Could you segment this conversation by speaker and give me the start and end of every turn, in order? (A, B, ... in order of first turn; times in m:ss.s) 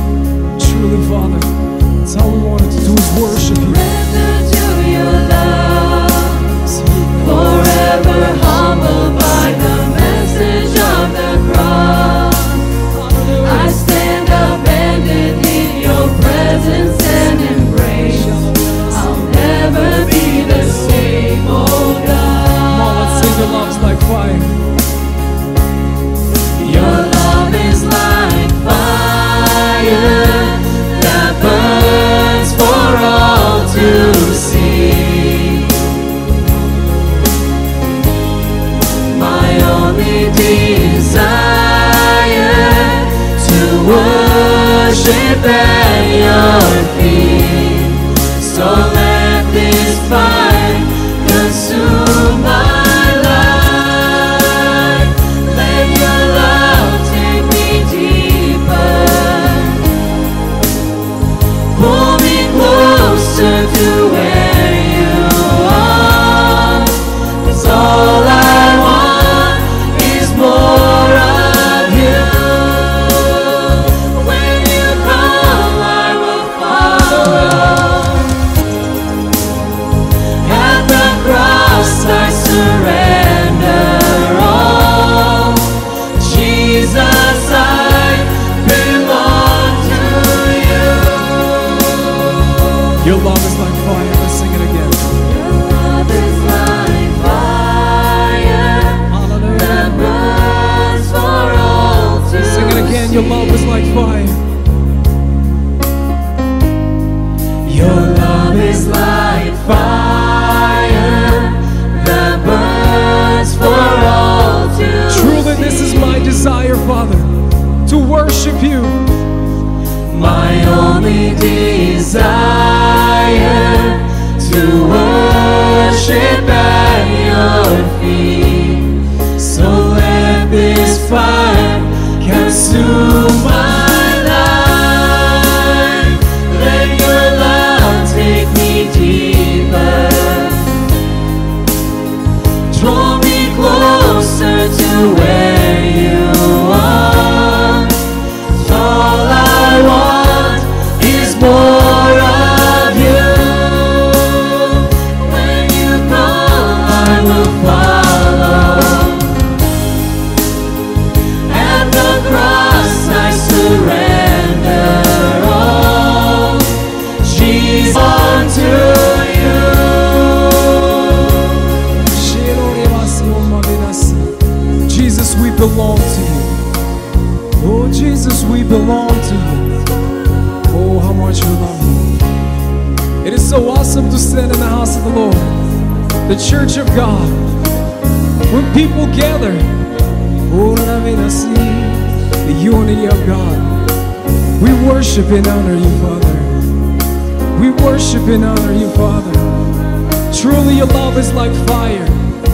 0:00.5-0:03.8 A
0:03.6-0:06.6 B
0:06.6-0:07.3 A
0:07.2-0:12.7 B
0:13.1-0:13.8 A
0:13.4-0:23.2 B
0:18.0-0:19.2 A
0:22.7-0:24.6 A
0:26.6-0:35.8 B
0:39.0-0:59.8 B
1:01.7-1:18.2 B
1:20.4-1:31.8 B
1:33.0-1:35.2 A
1:35.2-1:43.6 B
1:39.1-1:40.1 A
1:42.4-1:44.4 A
1:47.6-1:56.1 B
1:55.1-1:59.0 A
2:00.1-2:20.7 B
2:22.7-2:39.4 B
2:41.5-2:46.7 B
2:47.2-2:51.0 B
2:52.1-2:56.6 A
2:57.6-2:59.9 A
3:00.7-3:02.2 A
3:03.2-3:05.7 A
3:06.3-3:07.4 A
3:08.5-3:09.8 A
3:10.5-3:13.8 A
3:14.6-3:16.6 A
3:17.5-3:19.7 A
3:20.3-3:22.3 A